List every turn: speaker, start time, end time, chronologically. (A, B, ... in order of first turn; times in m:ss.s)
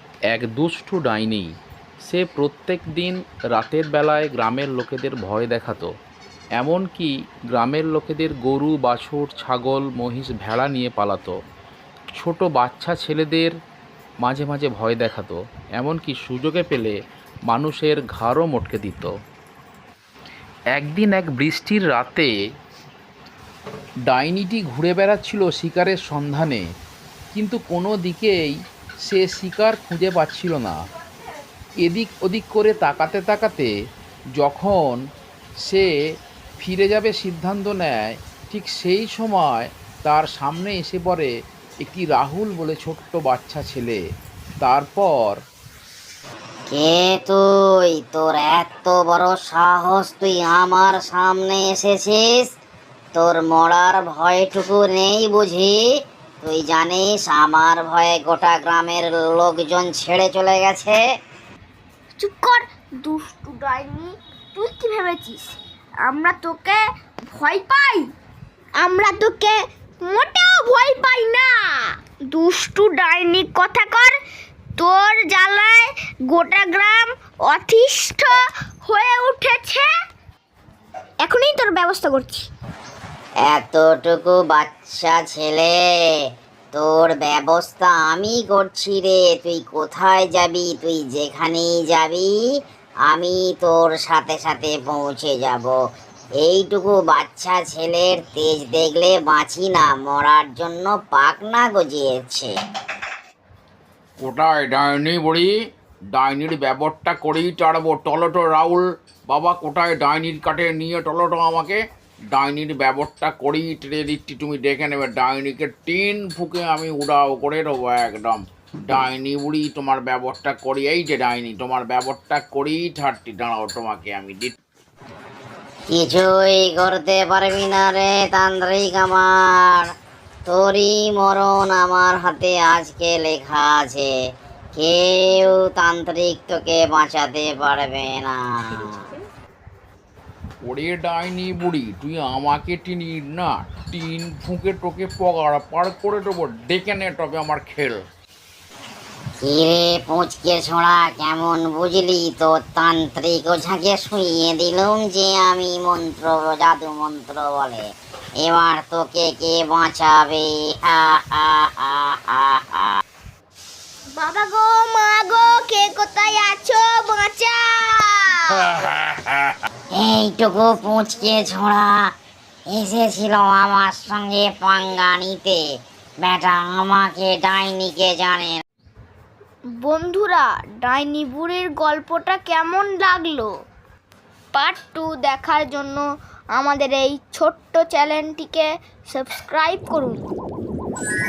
0:00.3-0:01.5 A
0:02.0-0:05.9 A
0:06.6-0:11.4 A
0:12.2-0:13.5 A
0:14.2-0:17.0 A
0:17.5-0:19.1 A
0:20.7-0:22.3 A
0:24.1-0:26.6 A
0:27.3-0:28.5 A
0:29.0-0:30.8 A
0:31.8-0:33.7 A
0:34.4-0:35.0 A
0:35.7-0:35.9 A
0:36.6-0:41.3 A
0:41.8-0:44.0 A
0:44.6-0:45.4 A
0:46.7-0:52.5 B
0:53.1-0:55.8 B
0:56.4-1:01.0 B
1:02.2-1:08.1 C
1:08.8-1:11.7 C
1:12.3-1:14.2 C
1:14.8-1:19.9 C
1:21.2-1:22.5 C
1:23.5-1:32.3 B
1:33.1-1:35.8 B
1:36.4-1:42.5 B
1:44.2-1:45.5 A
1:46.1-1:51.8 A
1:52.3-2:04.5 A
2:05.9-2:09.9 B
2:10.5-2:14.1 B
2:14.8-2:19.1 B
2:20.6-2:28.0 A
2:29.4-2:37.8 B
2:38.4-2:43.0 B
2:44.2-2:48.9 C
2:50.0-2:52.1 B
2:52.7-2:55.6 B
2:56.2-2:58.6 B
2:59.8-3:03.5 C
3:04.5-3:06.0 C
3:06.6-3:10.2 C